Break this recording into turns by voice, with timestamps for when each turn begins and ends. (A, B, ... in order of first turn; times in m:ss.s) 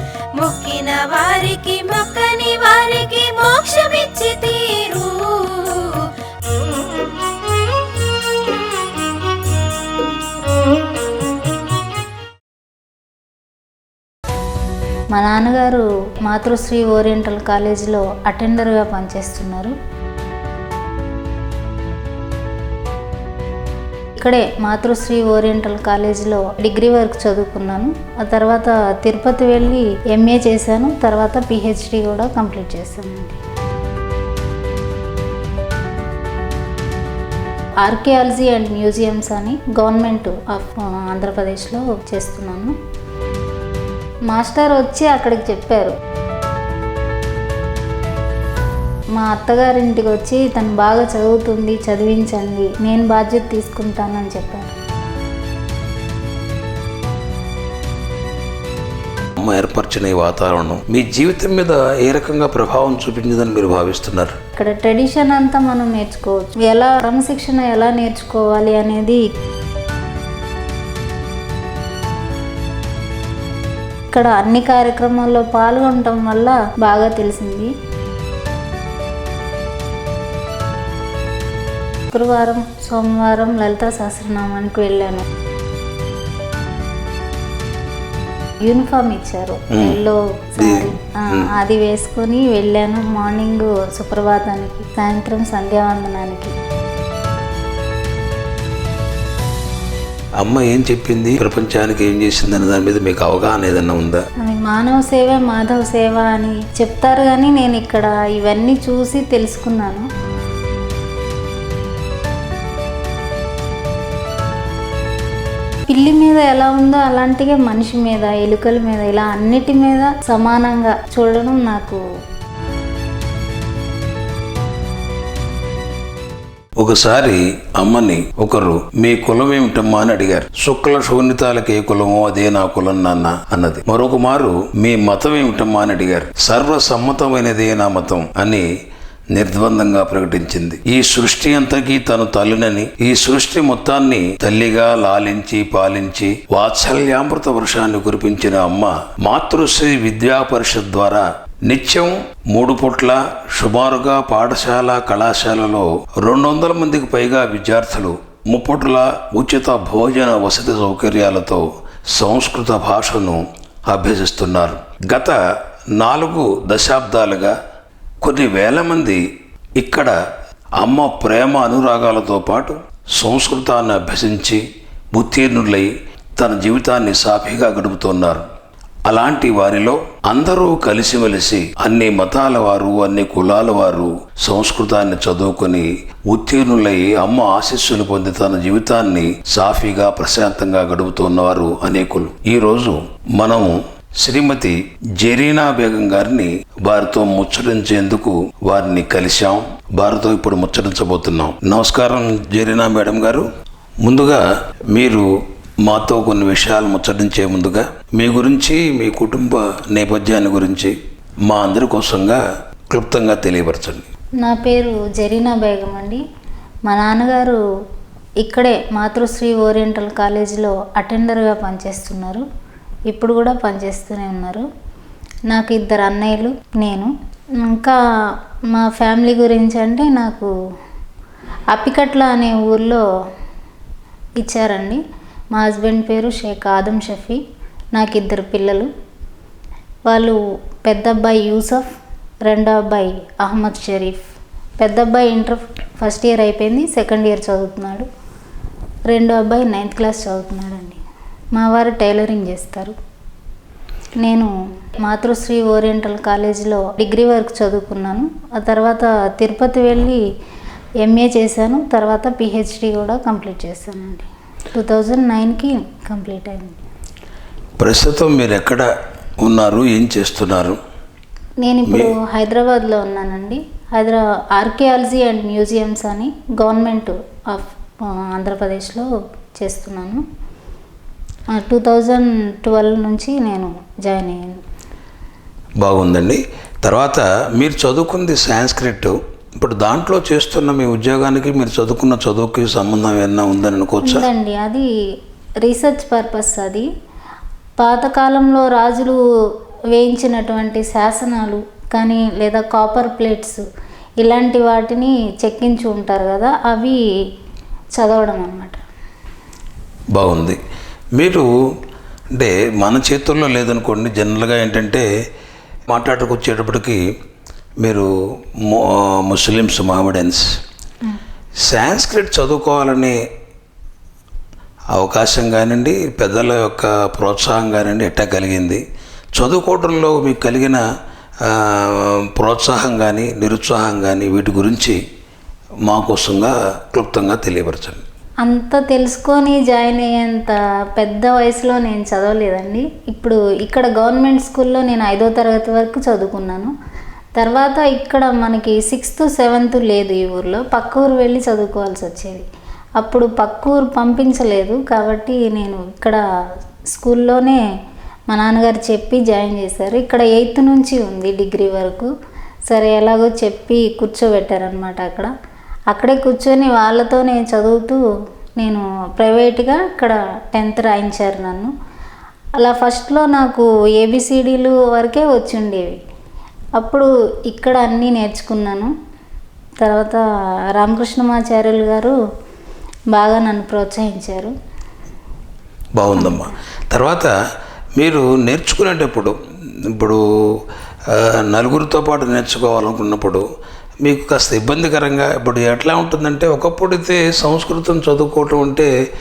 0:00.4-0:06.1 A
0:15.1-0:19.7 B
0:24.2-0:33.4 B
0:37.8-0:42.7 B
0:44.3-0:46.0 B
0:49.1-0:54.7 B
0:59.4-1:04.4 C
1:04.6-1:09.2 B
1:14.1-1:17.7 B
1:22.1-1:25.2 B
1:28.6-1:36.5 B
1:29.7-1:30.0 C
1:30.6-1:31.5 C
1:40.4-1:44.2 C
1:44.4-1:50.1 B
1:55.9-2:02.0 B
2:06.8-2:18.7 C
2:19.3-2:45.4 C
2:45.9-2:47.6 C
2:48.2-2:49.2 C
2:49.8-2:50.2 C
2:50.8-2:58.4 C
2:59.1-3:23.5 C
3:24.0-3:25.3 C
3:25.8-3:34.0 C
3:34.4-3:36.2 B
3:36.9-3:37.6 B
3:38.4-3:42.4 B
3:43.1-3:44.7 B
3:45.5-3:48.0 B
3:48.7-3:50.5 B
3:51.7-3:53.0 B
3:54.4-3:55.0 B
3:55.5-3:57.4 B
3:57.9-3:58.9 B
4:00.1-4:01.9 B
4:02.4-4:04.3 B
4:04.8-4:08.1 B
4:09.1-4:11.0 B
4:11.5-4:12.9 B
4:14.2-4:20.2 B
4:21.0-4:26.8 B
4:27.8-4:28.9 C
4:29.4-4:30.8 C
4:31.6-4:40.2 B
4:31.9-4:32.1 C
4:41.5-4:44.6 B
4:45.8-4:54.3 C
4:54.0-4:54.9 B
4:55.6-4:56.9 B
4:57.8-4:59.2 B
4:59.9-5:03.6 B
5:04.2-5:07.0 B
5:08.0-5:08.8 B
5:10.1-5:10.6 C
5:11.2-5:11.5 C
5:12.3-5:15.1 C
5:15.9-5:17.1 C
5:17.8-5:20.5 C
5:21.6-5:23.2 C
5:24.9-5:28.8 C
5:29.3-5:30.8 C
5:31.4-5:35.0 C
5:35.8-5:38.0 C
5:38.4-5:46.7 B
5:47.4-5:52.5 B
5:53.0-5:56.2 B
5:56.9-5:57.6 B
5:58.3-6:02.1 B
6:02.7-6:05.3 B
6:05.9-6:08.0 B
6:08.6-6:11.7 B
6:12.6-6:16.0 B
6:16.8-6:18.9 B
6:19.8-6:20.2 B
6:20.8-6:22.2 B
6:23.1-6:24.5 B
6:26.0-6:27.3 C
6:26.2-6:26.5 B
6:28.0-6:29.4 C
6:29.9-6:33.4 C
6:34.0-6:38.9 C